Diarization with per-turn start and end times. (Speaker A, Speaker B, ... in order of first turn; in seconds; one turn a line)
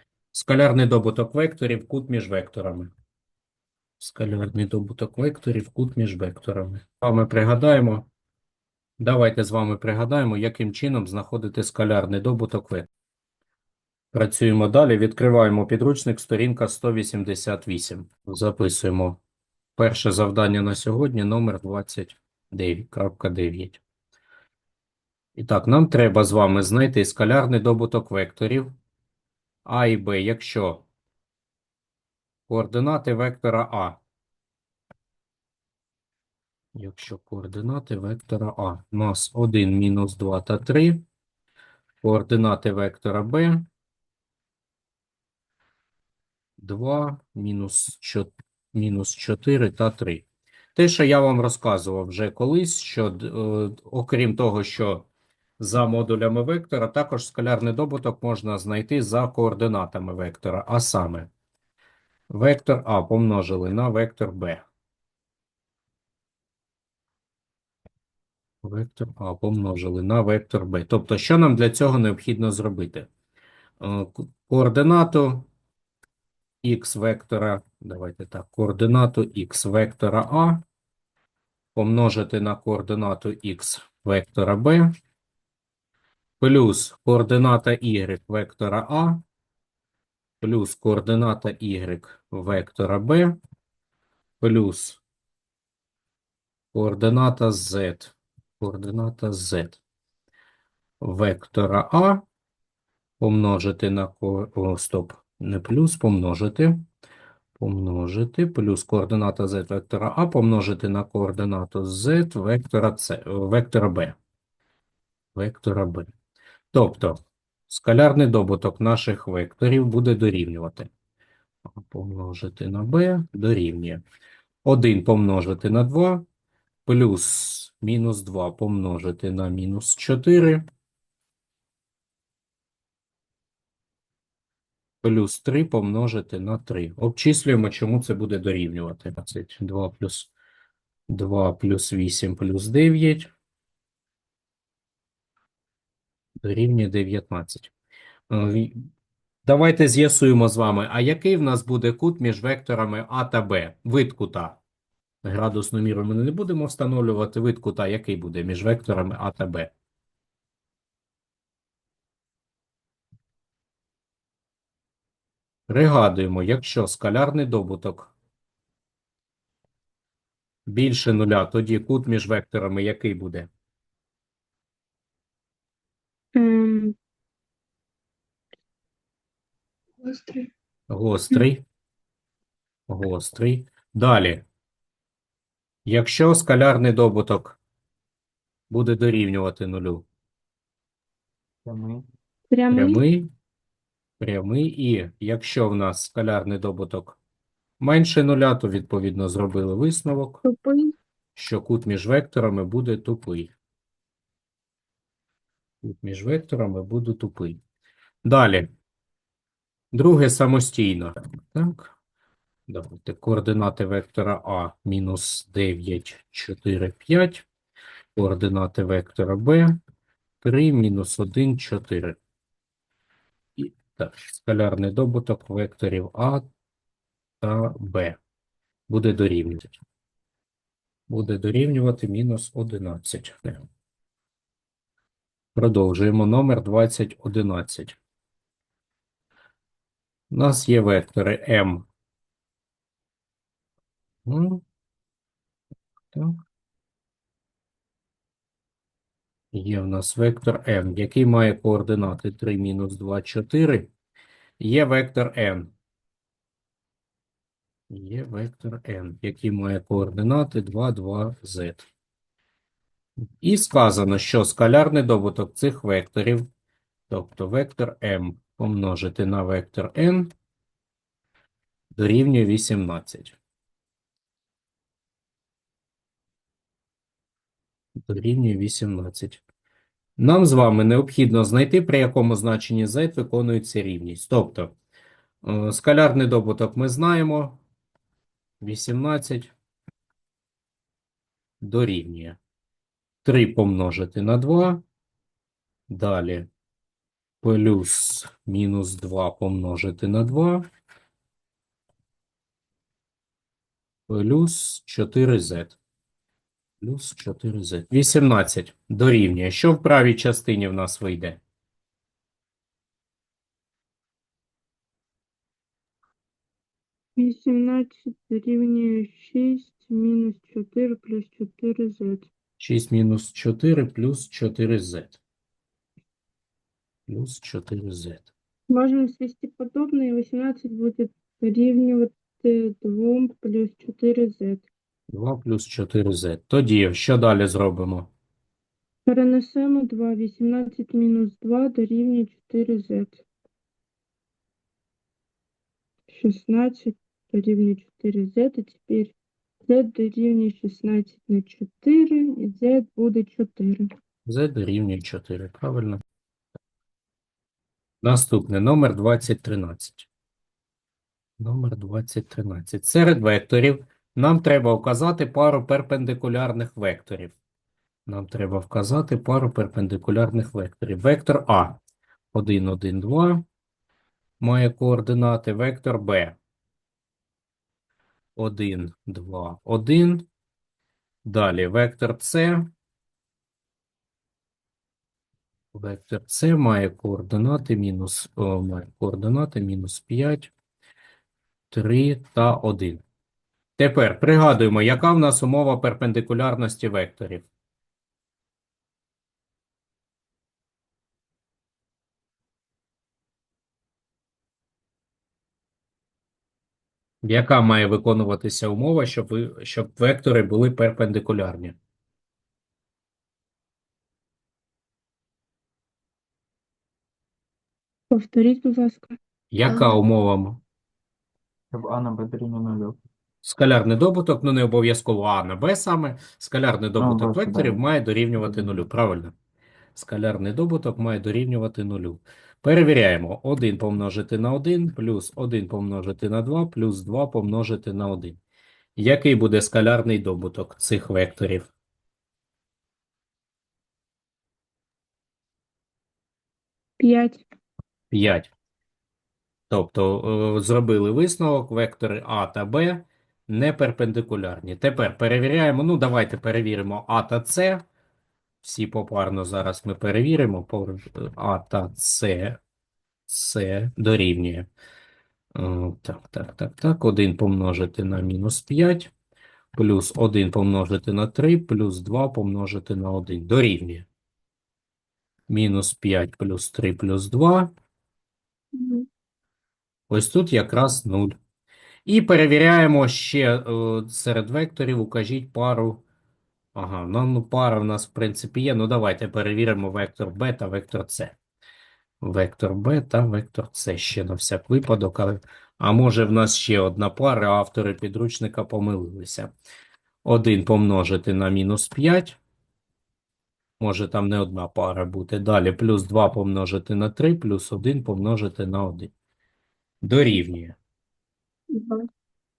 Speaker A: 0.3-2.9
Speaker A: 4.0-8.1
Speaker A: 9.0-12.9
Speaker A: 14.1-19.2
Speaker A: 19.8-23.8
Speaker A: 25.4-28.7
Speaker A: 29.6-30.8
Speaker A: 32.5-34.0
Speaker A: 36.8-41.0
Speaker A: 42.0-43.6
Speaker A: 46.6-55.1
Speaker A: 55.6-61.3
Speaker A: 62.3-64.7
Speaker A: 68.6-73.1
Speaker A: 73.8-75.5
Speaker A: 76.6-80.6
Speaker A: 81.8-84.9
Speaker A: 86.4-89.2
Speaker A: 90.4-93.4
Speaker A: 94.4-95.0
Speaker A: 96.7-99.8
Speaker A: 101.0-102.2
Speaker A: 103.2-106.8
Speaker A: 107.6-114.2
Speaker A: 115.3-116.1
Speaker A: 116.7-120.9
Speaker A: 121.7-124.0
Speaker A: 124.7-126.2
Speaker A: 126.9-130.7
Speaker A: 135.0-140.3
Speaker A: 141.1-143.3
Speaker A: 146.4-147.7
Speaker A: 148.3-148.8
Speaker A: 149.5-154.6
Speaker A: 155.2-159.7
Speaker A: 165.7-168.1
Speaker A: 170.7-173.5
Speaker B: 176.3-176.9
Speaker B: 180.0-180.5
Speaker A: 180.9-181.6
Speaker A: 182.9-184.4
Speaker A: 185.9-187.6
Speaker A: 188.7-190.1
Speaker C: 191.7-192.0
Speaker B: 192.5-193.0
Speaker A: 192.7-193.3
Speaker A: 194.2-197.2
Speaker A: 197.8-200.4
Speaker B: 200.4-200.9
Speaker A: 201.4-203.5
Speaker A: 205.8-207.6
Speaker A: 208.2-208.7
Speaker A: 209.9-211.9
Speaker A: 212.7-217.5
Speaker A: 218.2-219.8
Speaker A: 220.4-222.2
Speaker A: 223.6-226.5
Speaker A: 227.4-228.2
Speaker A: 228.9-229.8
Speaker A: 231.1-233.7
Speaker A: 235.6-238.0
Speaker A: 240.3-241.9
Speaker A: 244.3-244.6
Speaker A: 246.1-246.4
Speaker A: 249.5-253.9
Speaker A: 254.6-255.7
Speaker A: 257.9-261.9
Speaker A: 263.4-266.4
Speaker A: 267.1-270.3
Speaker A: 271.9-273.4
Speaker A: 278.1-279.4
Speaker A: 280.2-284.7
Speaker A: 285.4-287.6
Speaker A: 288.6-289.5
Speaker A: 291.6-292.4
Speaker A: 293.2-294.8
Speaker A: 295.9-296.5
Speaker A: 297.4-300.6
Speaker A: 304.1-305.8
Speaker A: 306.8-311.4
Speaker B: 317.2-322.3
Speaker A: 322.6-325.2
Speaker A: 327.1-328.3
Speaker B: 328.7-334.7
Speaker A: 335.1-338.1
Speaker B: 339.1-343.2
Speaker B: 346.1-349.1
Speaker B: 349.7-353.9
Speaker A: 354.3-356.0
Speaker A: 358.0-360.1
Speaker A: 361.4-367.4
Speaker A: 368.1-371.8
Speaker A: 372.3-373.4
Speaker A: 374.4-376.4
Speaker A: 378.4-380.3
Speaker A: 381.2-382.7
Speaker A: 385.7-390.5
Speaker A: 391.7-393.0
Speaker A: 393.8-397.5
Speaker A: 407.2-411.8
Speaker B: 418.1-419.2
Speaker A: 419.5-420.6
Speaker C: 421.7-423.0
Speaker A: 423.4-429.3
Speaker C: 427.0-427.8
Speaker C: 428.4-428.7
Speaker A: 429.9-438.4
Speaker A: 439.0-441.7
Speaker B: 447.0-447.4
Speaker A: 448.1-448.5
Speaker A: 449.7-457.8
Speaker A: 458.6-462.6
Speaker A: 463.3-464.7
Speaker A: 465.6-469.1
Speaker A: 469.8-474.1
Speaker A: 475.5-477.7
Speaker B: 478.7-479.1
Speaker A: 480.1-481.4
Speaker A: 482.1-486.0
Speaker A: 486.8-491.4
Speaker A: 492.2-499.5
Speaker A: 500.2-502.4
Speaker A: 503.8-509.1
Speaker A: 510.0-510.8
Speaker B: 511.7-512.1